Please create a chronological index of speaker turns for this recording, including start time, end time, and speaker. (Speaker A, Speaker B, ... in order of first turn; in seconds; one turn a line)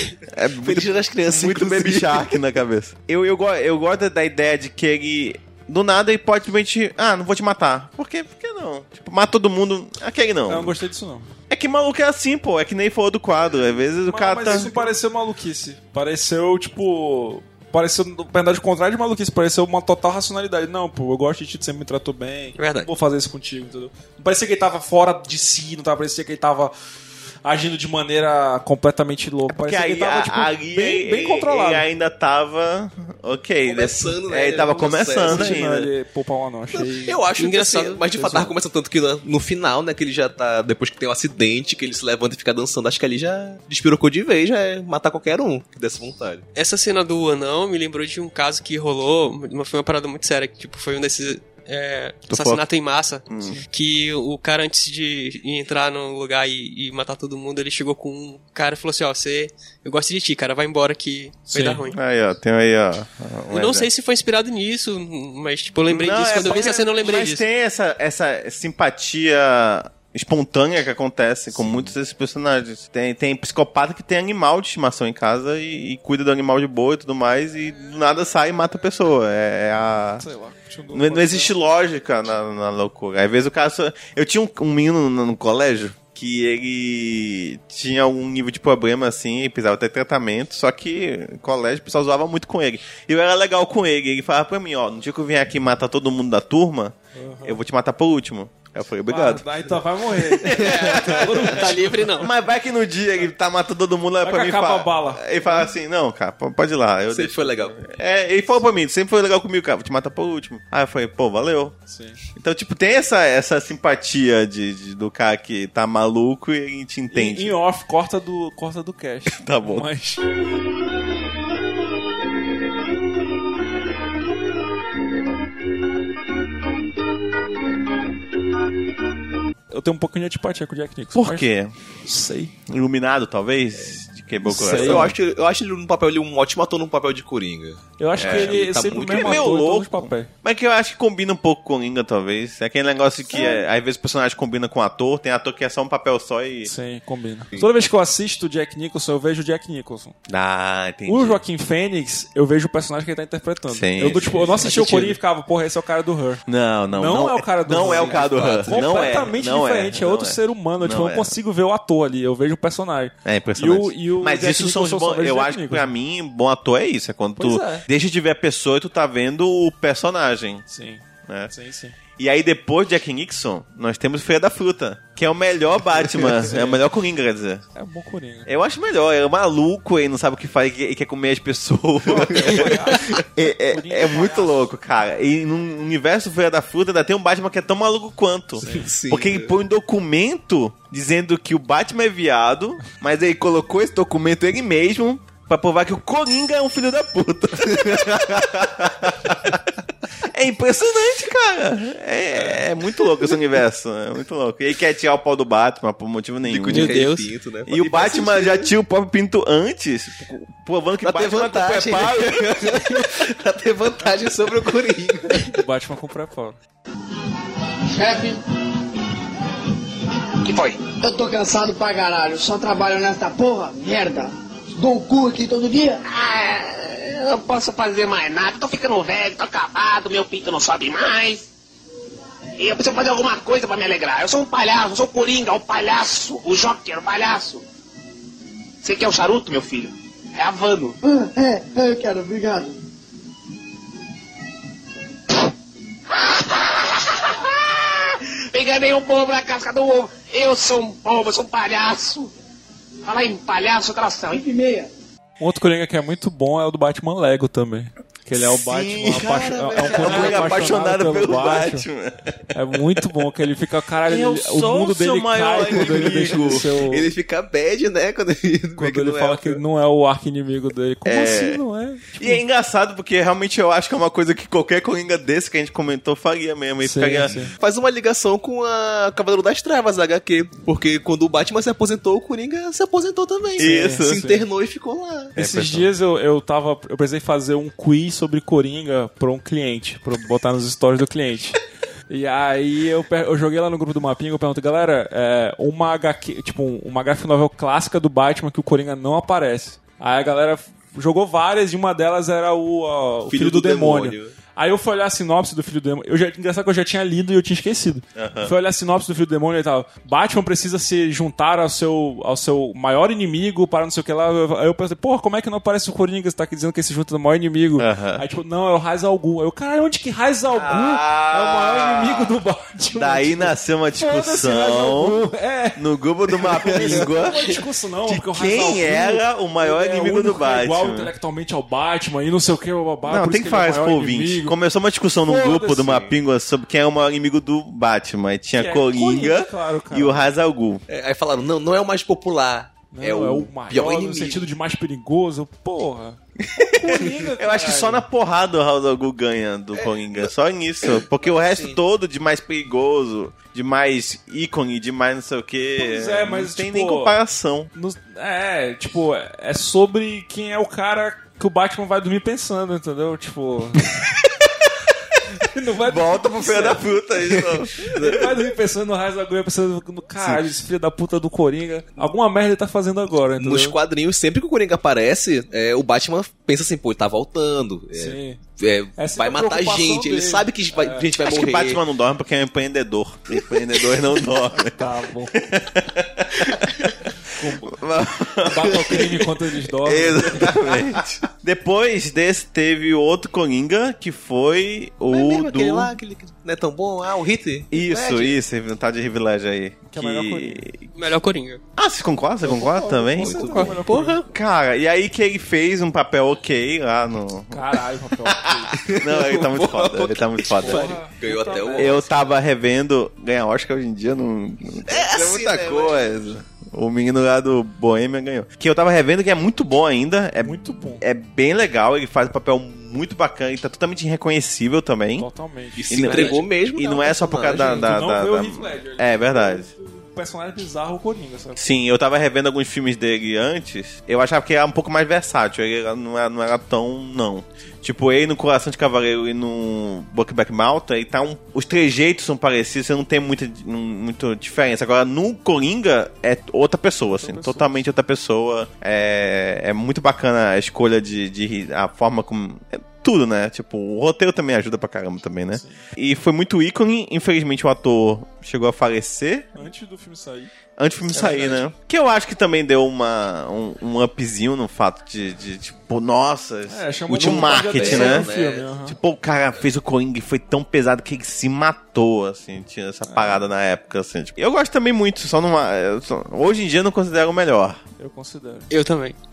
Speaker A: 0.3-10.8
Speaker B: 0.6-2.3
Speaker C: 10.5-11.3
Speaker A: 11.5-14.9
Speaker C: 14.1-26.7
Speaker D: 22.6-22.9
Speaker C: 27.4-31.9
Speaker A: 29.5-35.9
Speaker B: 33.6-35.6
Speaker C: 35.2-37.2
Speaker B: 36.7-46.4
Speaker D: 37.4-38.4
Speaker C: 38.2-38.5
Speaker D: 46.5-62.0
Speaker A: 52.3-52.6
Speaker A: 53.3-53.6
Speaker C: 61.5-61.8
Speaker A: 61.9-63.9
Speaker D: 63.5-67.4
Speaker A: 65.9-80.2
Speaker C: 71.5-71.9
Speaker C: 80.2-81.5
Speaker A: 80.9-101.6
Speaker C: 97.1-97.6
Speaker C: 99.1-102.2
Speaker D: 100.5-102.3
Speaker A: 102.1-111.8
Speaker C: 104.2-105.7
Speaker B: 107.1-107.8
Speaker C: 111.9-112.2
Speaker A: 112.4-117.6
Speaker C: 117.1-120.2
Speaker A: 119.3-119.9
Speaker C: 129.7-131.5
Speaker A: 131.2-131.7
Speaker C: 132.1-132.5
Speaker A: 132.7-135.2
Speaker C: 134.5-135.1
Speaker B: 134.5-139.5
Speaker C: 138.0-140.3
Speaker A: 138.2-146.7
Speaker C: 143.3-143.6
Speaker C: 146.6-150.2
Speaker A: 150.3-151.4
Speaker C: 151.1-165.9
Speaker A: 153.7-155.2
Speaker A: 156.5-161.4
Speaker B: 157.8-159.2
Speaker A: 163.2-170.6
Speaker C: 167.4-167.9
Speaker C: 170.7-172.0
Speaker A: 171.3-171.5
Speaker A: 172.2-177.7
Speaker C: 176.0-176.8
Speaker C: 177.8-178.5
Speaker A: 178.5-207.0
Speaker C: 182.1-184.7
Speaker B: 182.3-182.7
Speaker C: 188.6-188.9
Speaker B: 188.6-189.5
Speaker B: 206.4-208.7
Speaker D: 206.7-207.3
Speaker A: 207.7-213.1
Speaker B: 211.0-215.6
Speaker C: 215.4-216.6
Speaker E: 217.9-218.4
Speaker F: 220.4-220.8
Speaker E: 221.0-226.0
Speaker F: 226.1-231.5
Speaker F: 232.6-237.6
Speaker F: 238.8-241.0
Speaker E: 241.0-242.7
Speaker F: 246.1-252.3
Speaker F: 253.1-254.4
Speaker E: 254.3-254.9
Speaker C: 255.4-261.9
Speaker A: 258.3-263.0
Speaker B: 259.8-260.7
Speaker C: 262.5-267.1
Speaker A: 264.1-266.7
Speaker B: 265.6-269.6
Speaker C: 268.8-272.4
Speaker A: 271.1-271.6
Speaker A: 272.1-277.3
Speaker C: 276.8-277.5
Speaker B: 277.3-285.4
Speaker A: 283.6-284.3
Speaker C: 283.6-284.5
Speaker A: 285.4-285.9
Speaker C: 285.4-291.6
Speaker C: 292.1-334.6
Speaker B: 303.3-304.3
Speaker A: 308.1-308.5
Speaker A: 317.8-318.2
Speaker A: 320.5-322.4
Speaker A: 322.9-325.2
Speaker A: 325.8-331.1
Speaker B: 326.8-327.1
Speaker A: 333.0-340.8
Speaker C: 335.3-336.1
Speaker C: 338.6-340.3
Speaker B: 340.9-344.5
Speaker C: 342.9-348.1
Speaker A: 346.8-357.7
Speaker B: 349.8-350.3
Speaker B: 350.8-351.8
Speaker C: 355.8-357.2
Speaker C: 357.7-363.9
Speaker C: 365.4-367.0
Speaker A: 365.8-368.2
Speaker B: 367.2-368.3
Speaker C: 368.0-373.8
Speaker B: 373.4-381.8
Speaker C: 377.9-378.4
Speaker C: 379.0-381.1
Speaker A: 381.2-395.9
Speaker C: 384.6-385.4
Speaker C: 387.3-390.6
Speaker B: 390.4-390.8
Speaker B: 395.1-398.4
Speaker A: 397.7-400.9
Speaker C: 399.9-400.7
Speaker D: 401.0-401.6
Speaker A: 401.8-411.0
Speaker C: 402.4-404.2
Speaker B: 403.2-403.9
Speaker D: 403.5-404.2
Speaker C: 407.5-408.8
Speaker B: 408.7-412.2
Speaker C: 410.6-412.0
Speaker A: 411.7-425.3
Speaker B: 414.9-416.3
Speaker C: 420.4-421.0
Speaker C: 425.2-426.4
Speaker B: 425.8-427.9
Speaker A: 425.9-429.7
Speaker C: 427.6-431.6
Speaker A: 431.6-459.6
Speaker C: 447.1-447.8
Speaker C: 455.5-455.8
Speaker C: 459.6-460.5
Speaker A: 460.8-468.3
Speaker C: 461.1-461.6
Speaker C: 466.7-469.0
Speaker B: 467.2-468.7
Speaker A: 468.9-477.8
Speaker C: 473.1-473.4
Speaker C: 478.0-478.7
Speaker D: 478.7-479.2